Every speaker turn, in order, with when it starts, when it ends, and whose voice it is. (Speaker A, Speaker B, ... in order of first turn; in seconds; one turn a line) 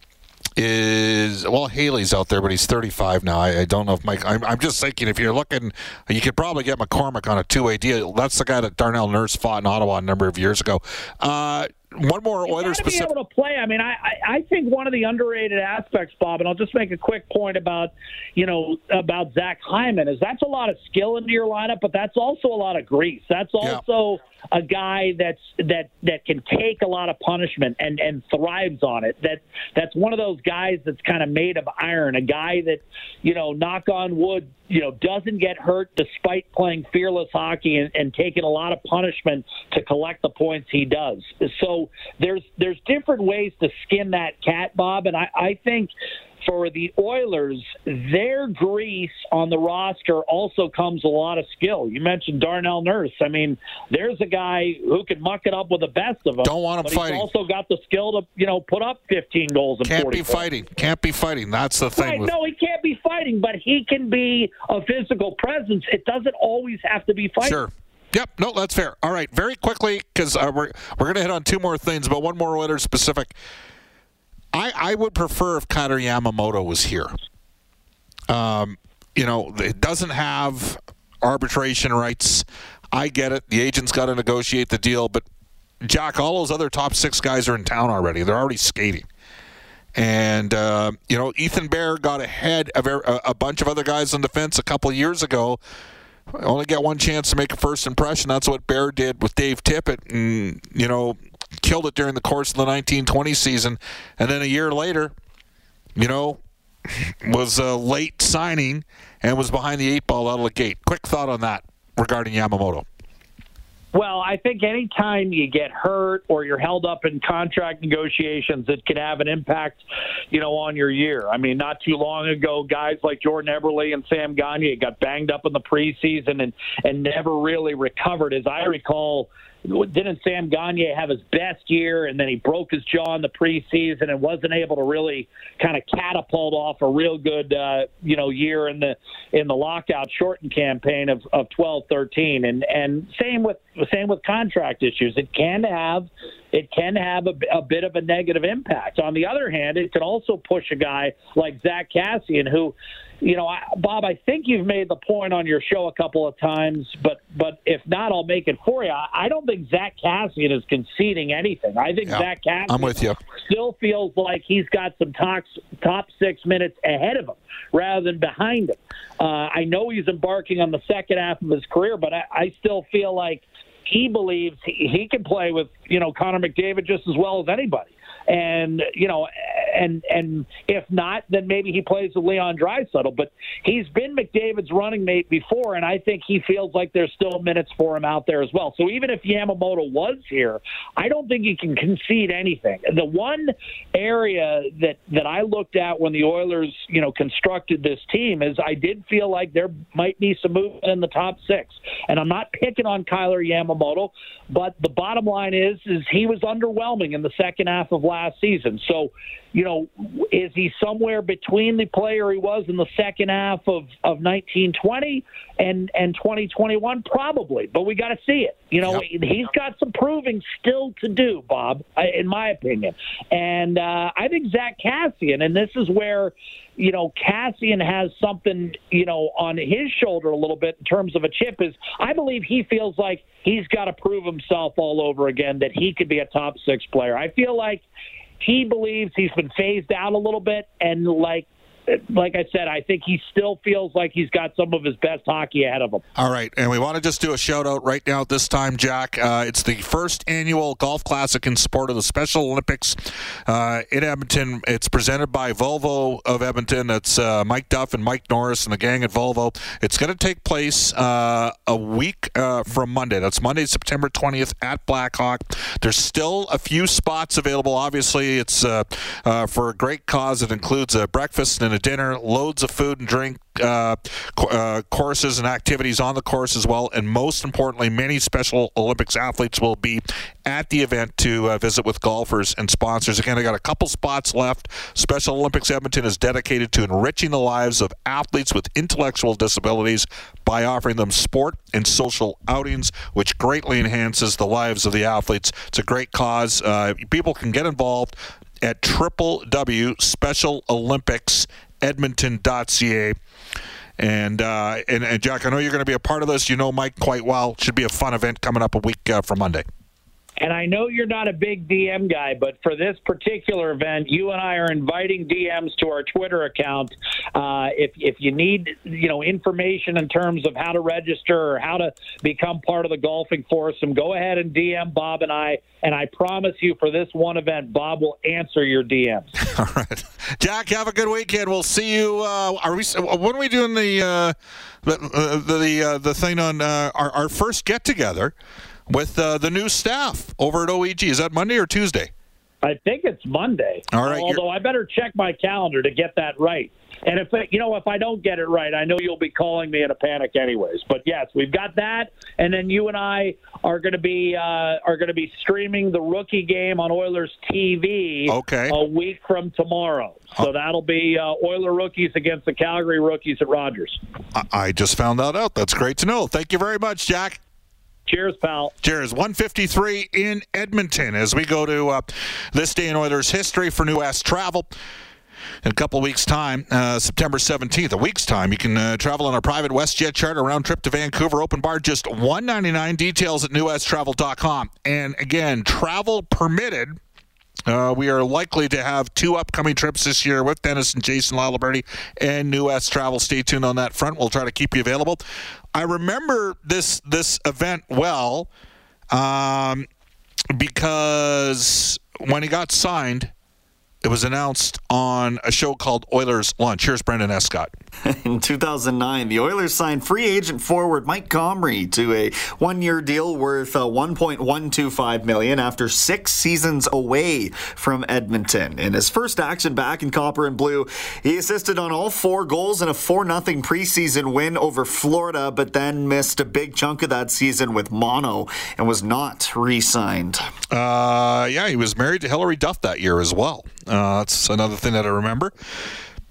Speaker A: 0.6-13.1
Speaker B: 12.5-60.5
Speaker A: 56.4-57.2
Speaker A: 59.9-62.3
Speaker B: 62.0-67.6
Speaker A: 67.4-73.3
Speaker A: 74.5-77.1
Speaker A: 78.3-85.2
Speaker A: 85.8-89.0
Speaker A: 90.0-95.6
Speaker A: 96.3-105.1
Speaker A: 106.0-112.8
Speaker B: 113.9-237.8
Speaker A: 162.1-163.2
Speaker B: 238.4-246.0
Speaker A: 246.2-303.2
Speaker A: 304.0-309.6
Speaker B: 310.4-329.3
Speaker A: 329.4-338.3
Speaker A: 338.9-342.1
Speaker B: 342.6-364.0
Speaker A: 343.9-344.4
Speaker A: 358.3-358.8
Speaker A: 364.3-367.4
Speaker B: 368.1-368.7
Speaker A: 368.8-374.7
Speaker A: 375.6-387.0
Speaker A: 387.7-395.2
Speaker A: 395.7-398.5
Speaker A: 399.1-399.9
Speaker A: 400.5-403.3
Speaker A: 404.0-407.7
Speaker C: 408.1-430.5
Speaker A: 430.7-435.5